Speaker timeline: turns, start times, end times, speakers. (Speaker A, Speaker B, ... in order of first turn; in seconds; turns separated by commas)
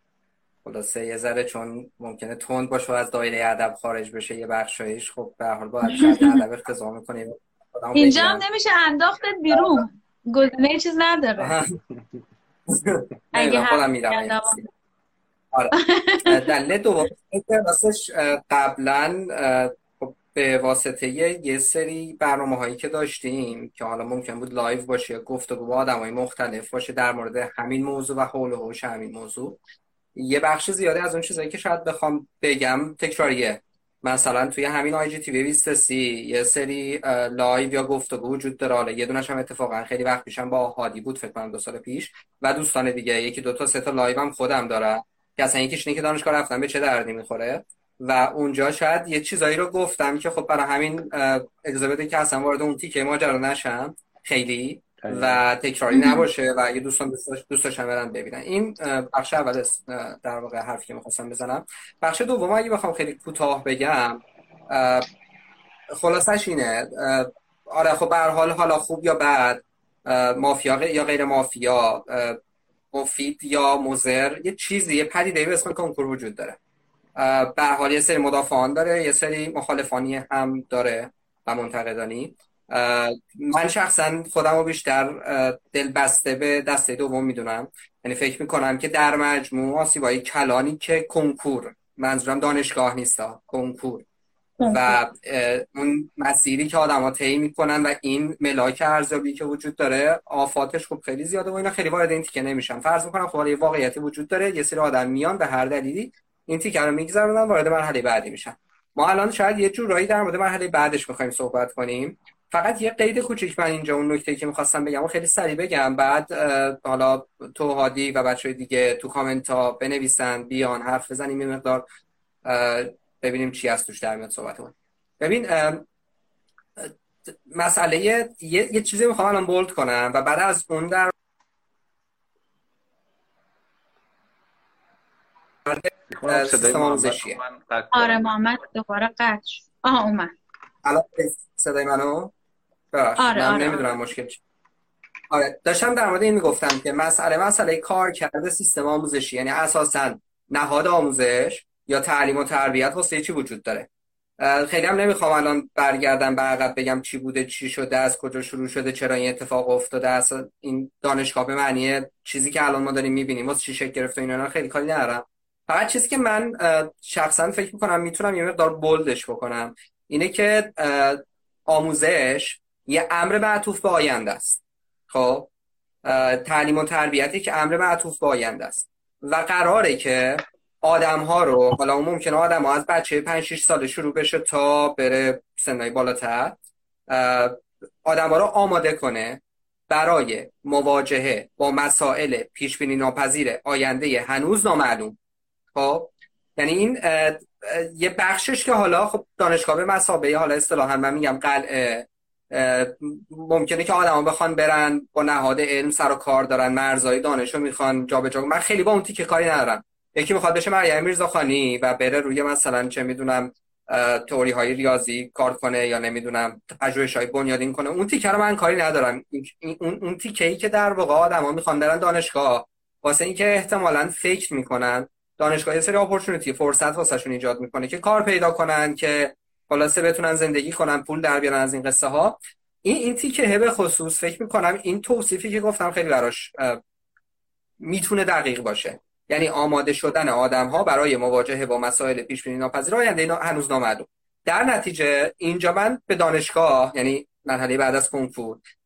Speaker A: 0.6-8.4, Speaker B: 5.9-6.4, Speaker B: 7.9-11.5, Speaker A: 11.4-11.8, Speaker A: 12.7-14.6, Speaker B: 13.3-14.7, Speaker A: 15.5-29.6, Speaker B: 15.7-16.4, Speaker A: 30.1-65.1, Speaker C: 55.0-55.4, Speaker B: 55.9-56.2, Speaker A: 66.0-72.4, Speaker A: 72.9-76.6, Speaker A: 77.2-94.0, Speaker B: 94.6-95.0, Speaker A: 94.6-121.8, Speaker A: 122.4-125.8, Speaker A: 127.5-131.1, Speaker A: 135.7-137.4, Speaker C: 136.1-138.3, Speaker B: 137.9-140.3, Speaker A: 140.8-142.3, Speaker A: 142.9-144.4, Speaker B: 143.2-143.8, Speaker A: 145.3-153.9, Speaker A: 154.4-175.5, Speaker A: 176.0-186.6, Speaker A: 187.1-195.1, Speaker A: 195.7-236.8, Speaker A: 237.8-248.6